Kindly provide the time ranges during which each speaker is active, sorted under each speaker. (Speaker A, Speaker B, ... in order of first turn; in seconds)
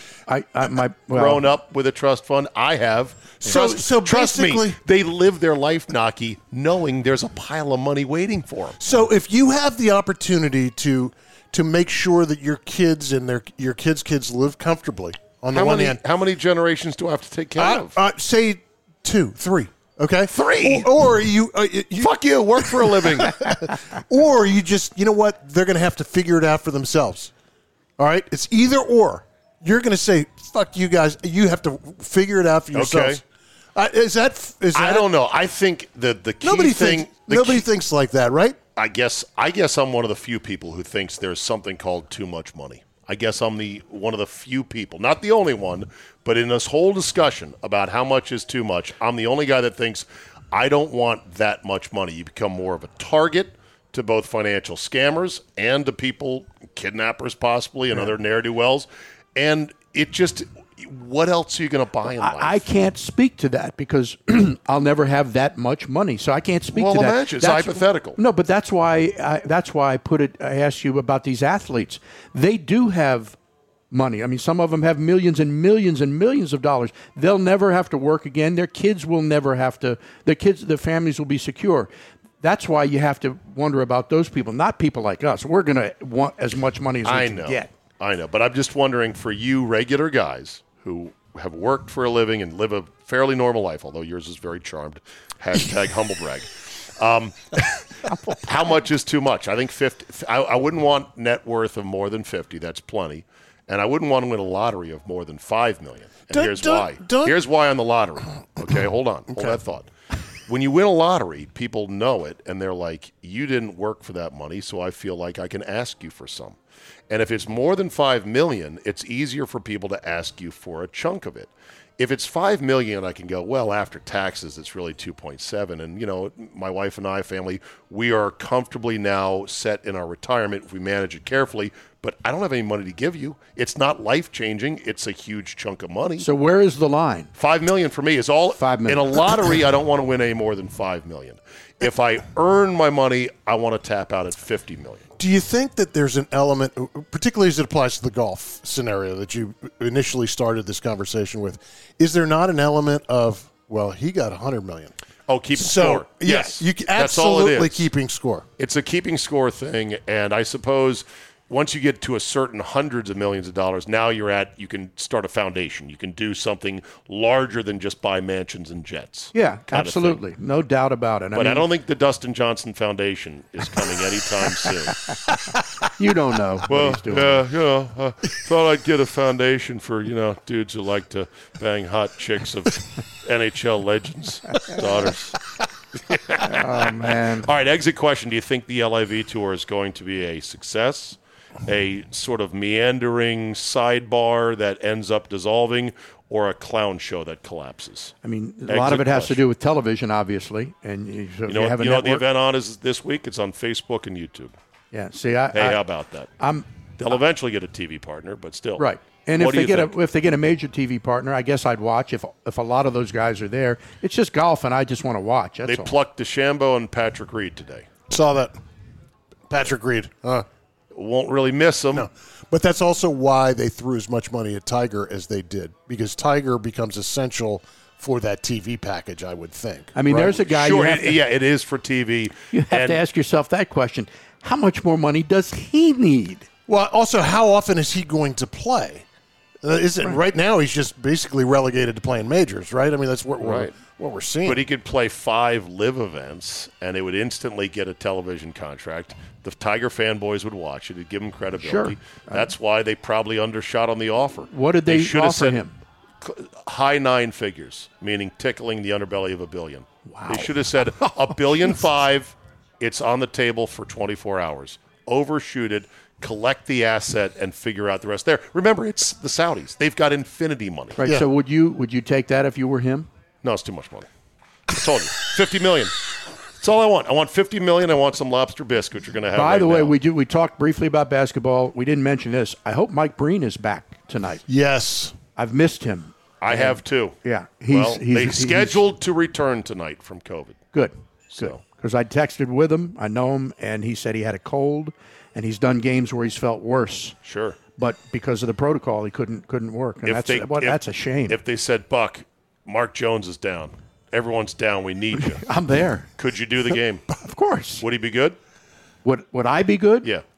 Speaker A: 0.3-1.5, 62.2-73.4, 73.9-81.9, 82.4-87.7, 136.2-137.3, 138.6-139.3, 169.3-171.7, 175.9-177.4, 186.4-187.5, 198.2-202.2, 204.9-205.8, 206.4-206.6, 208.8-215.9, 229.9-231.2, 232.5-236.5, 251.6-252.5, 254.5-255.7, 260.1-261.8, 271.0-273.1, 279.3-284.4, 285.4-288.8, 290.7-297.1, 297.8-301.4, 305.1-306.1, 307.2-307.8, 309.1-310.1
Speaker B: 1.1-8.8, 15.5-18.0, 20.3-20.9, 22.0-23.5, 32.7-33.2, 34.7-37.7, 38.8-62.6, 66.7-68.2, 87.0-97.8, 98.3-109.9, 110.5-116.6, 117.1-136.3, 137.3-145.1, 155.3-157.9, 158.6-170.2, 171.3-175.0, 176.7-185.4, 185.9-198.1, 198.7-199.4, 201.5-204.6, 205.5-206.3, 207.0-208.9, 209.4-209.9, 215.6-217.9, 220.9-222.1, 230.2-233.0, 243.4-243.7, 244.4-255.6, 256.2-271.0, 273.4-274.1, 274.7-275.9, 276.6-279.9, 286.4-287.1, 287.7-290.6, 291.3-291.6, 297.2-297.6, 300.1-305.4, 306.2-307.1, 307.8-308.4
Speaker C: 3.4-4.8, 8.8-16.0, 17.6-27.3, 28.0-33.2, 33.7-35.1, 36.4-38.6, 106.3-107.4, 145.2-154.9, 155.6-158.4, 218.1-218.6, 219.5-220.4, 221.9-230.3, 236.7-239.1, 239.6-244.6, 284.5-285.1